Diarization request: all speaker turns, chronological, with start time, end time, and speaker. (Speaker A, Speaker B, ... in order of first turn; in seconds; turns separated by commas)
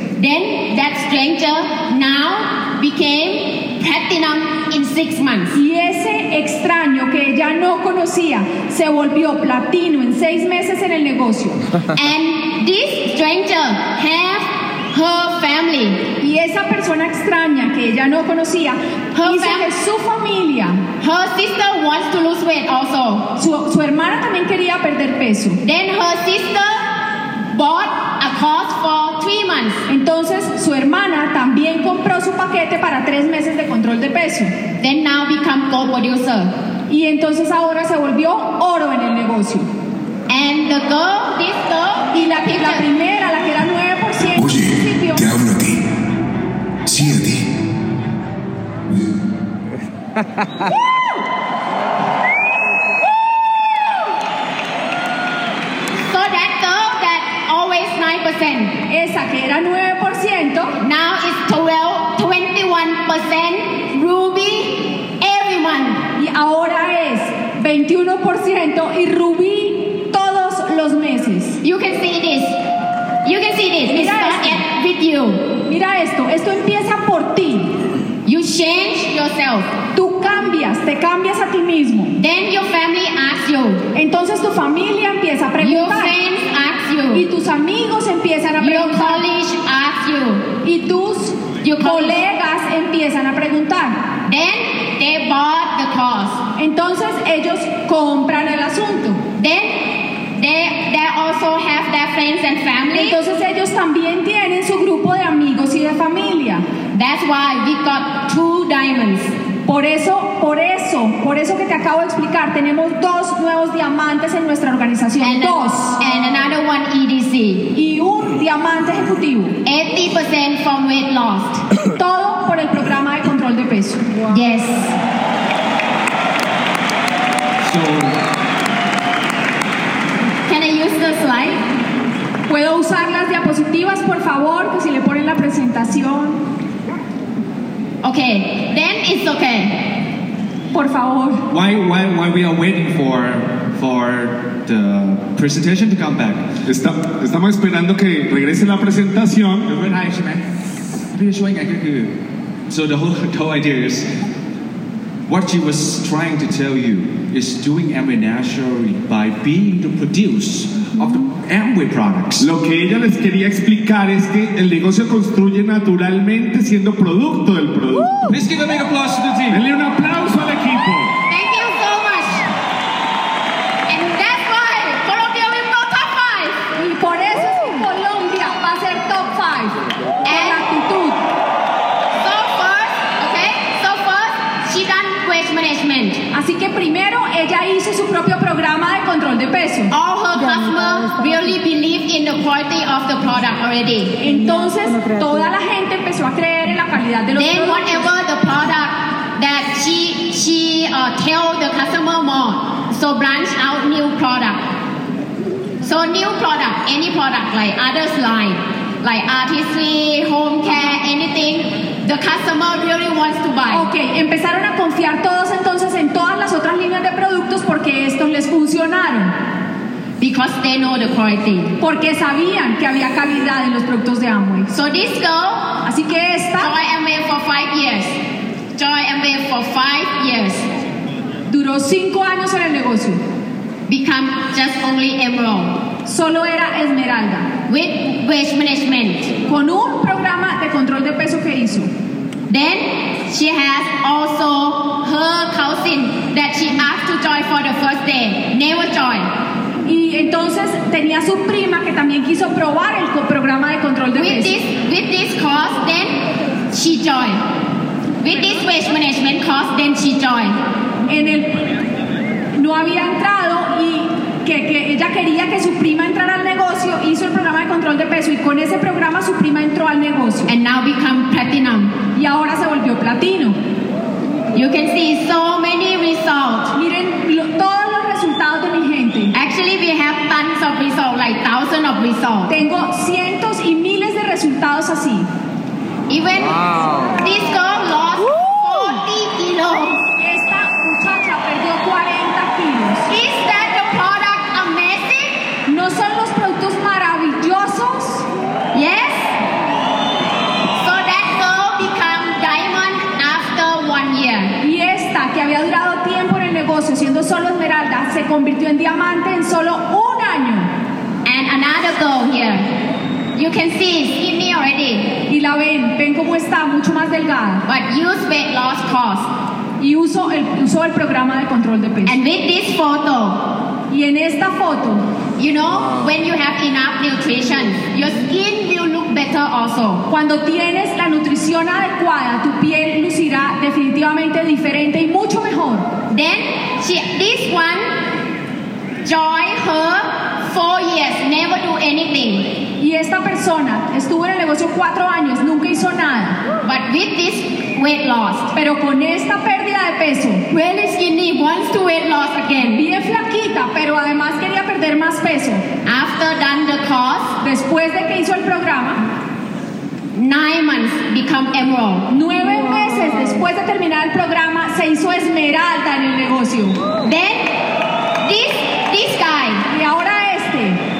Speaker A: 0.1-5.6, Speaker B: 5.5-11.6, Speaker A: 11.9-16.1, Speaker B: 16.2-20.8, Speaker A: 19.1-19.7, Speaker A: 21.0-23.3, Speaker B: 23.4-25.6, Speaker A: 25.6-29.8, Speaker B: 29.9-34.5, Speaker A: 34.8-36.5, Speaker B: 36.9-39.7, Speaker A: 40.3-42.9, Speaker B: 42.1-45.3, Speaker C: 44.4-45.8, Speaker C: 46.9-47.5, Speaker A: 55.9-58.8, Speaker B: 58.9-60.8, Speaker A: 60.8-66.0, Speaker B: 66.2-71.6, Speaker A: 71.6-72.6, Speaker A: 73.2-75.5, Speaker B: 73.9-74.6, Speaker B: 75.6-77.8, Speaker A: 78.2-79.7, Speaker B: 79.9-82.2, Speaker A: 82.2-83.8, Speaker B: 83.9-86.1, Speaker A: 85.6-87.2, Speaker B: 87.1-89.2, Speaker A: 88.6-90.5, Speaker B: 90.6-94.0, Speaker A: 91.6-92.2, Speaker A: 94.2-96.4, Speaker B: 96.5-99.2, Speaker A: 99.4-103.2, Speaker B: 102.9-106.6, Speaker A: 106.9-109.3, Speaker B: 109.7-116.0, Speaker A: 115.2-117.7, Speaker B: 117.7-119.6, Speaker A: 119.6-121.6, Speaker B: 122.0-124.0, Speaker A: 124.2-125.0, Speaker D: 127.6-128.2, Speaker A: 130.4-131.6, Speaker B: 132.5-136.4, Speaker A: 138.0-139.9, Speaker B: 140.7-141.4, Speaker D: 141.5-146.4, Speaker E: 146.7-149.7, Speaker D: 149.7-150.4, Speaker D: 151.1-152.1, Speaker D: 152.7-154.1, Speaker D: 155.3-162.5, Speaker E: 162.4-168.4, Speaker D: 168.3-169.6, Speaker E: 169.5-171.2, Speaker A: 171.3-172.5, Speaker A: 173.9-176.7, Speaker B: 176.7-181.2, Speaker A: 180.2-180.7, Speaker A: 182.1-186.2, Speaker B: 186.3-189.9, Speaker A: 189.9-194.2, Speaker B: 194.2-198.1, Speaker A: 197.3-204.6, Speaker A: 205.8-213.9, Speaker B: 213.7-219.3, Speaker A: 220.2-221.8, Speaker B: 221.8-224.7, Speaker A: 224.7-225.8, Speaker B: 225.8-226.7, Speaker A: 226.6-228.2, Speaker A: 228.8-230.7, Speaker B: 231.5-233.2, Speaker A: 233.9-235.8, Speaker B: 236.0-237.5, Speaker A: 237.7-239.3, Speaker B: 239.4-241.9, Speaker A: 242.5-249.3, Speaker B: 249.8-254.6, Speaker A: 254.1-257.4, Speaker A: 258.2-260.6, Speaker B: 261.1-261.6, Speaker B: 262.5-270.5, Speaker A: 270.5-272.0, Speaker B: 272.1-273.6, Speaker A: 274.5-276.7, Speaker B: 276.7-279.3, Speaker A: 279.3-282.5, Speaker B: 282.5-285.3, Speaker A: 286.1-290.0, Speaker B: 290.2-293.1, Speaker A: 293.1-295.4, Speaker B: 295.7-298.3, Speaker A: 298.7-299.4, Speaker A: 300.8-304.6, Speaker B: 304.6-310.7, Speaker A: 311.2-312.7, Speaker A: 313.3-315.1, Speaker B: 315.3-317.6, Speaker A: 317.6-319.3, Speaker B: 319.8-322.2, Speaker A: 322.0-323.4, Speaker B: 323.9-325.0, Speaker A: 325.4-330.1, Speaker B: 330.1-335.9, Speaker A: 336.1-338.0, Speaker A: 339.0-342.6, Speaker B: 342.8-346.4, Speaker A: 346.6-348.5, Speaker B: 348.5-350.4, Speaker A: 350.5-352.8, Speaker B: 352.7-355.6, Speaker A: 355.8-357.4, Speaker B: 357.4-359.0, Speaker A: 360.1-362.1, Speaker B: 362.1-366.8, Speaker A: 367.0-367.5, Speaker A: 368.2-369.6, Speaker B: 369.7-370.8